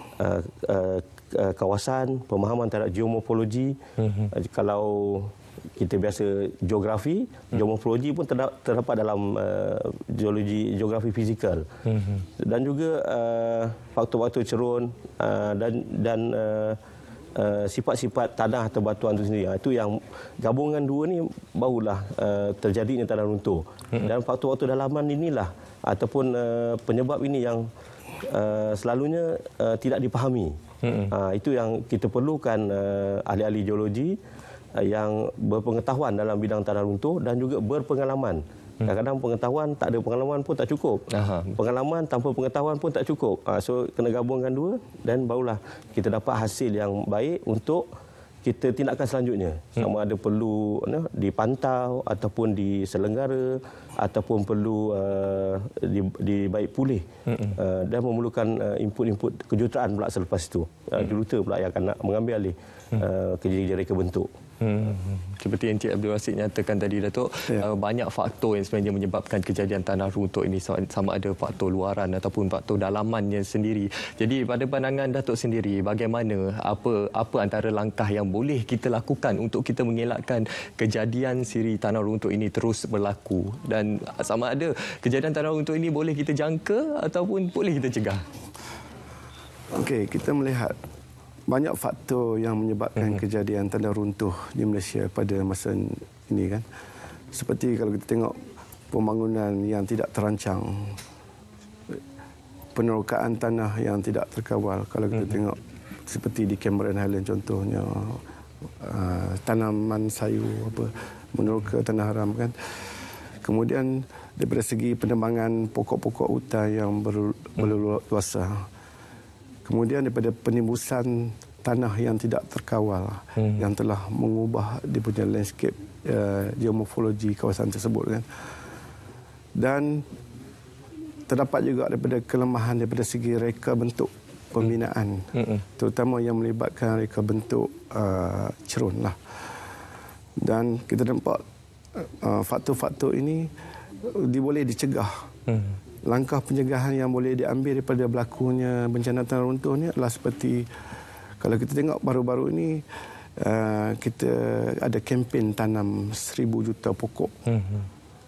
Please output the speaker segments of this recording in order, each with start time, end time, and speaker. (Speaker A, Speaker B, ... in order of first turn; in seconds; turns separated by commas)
Speaker A: 0.2-3.8, Speaker B: 4.0-4.3, Speaker A: 4.3-11.7, Speaker B: 11.9-12.2, Speaker A: 12.4-16.8, Speaker A: 17.4-27.6, Speaker A: 28.3-30.5, Speaker B: 30.8-31.1, Speaker A: 31.1-34.2, Speaker A: 34.8-47.9, Speaker B: 41.1-41.6, Speaker A: 48.4-57.0, Speaker B: 57.3-57.6, Speaker A: 57.5-64.3, Speaker B: 64.6-88.2, Speaker C: 89.7-90.7, Speaker C: 91.5-96.6, Speaker C: 97.3-98.4, Speaker C: 98.9-101.0, Speaker C: 102.8-108.2, Speaker C: 108.8-112.5, Speaker C: 113.4-118.7, Speaker C: 119.7-128.2, Speaker C: 129.6-130.1, Speaker C: 131.3-139.2, Speaker C: 140.4-141.4, Speaker C: 141.9-143.5, Speaker C: 144.1-145.2, Speaker C: 146.1-150.7, Speaker C: 151.4-152.8, Speaker C: 153.4-157.3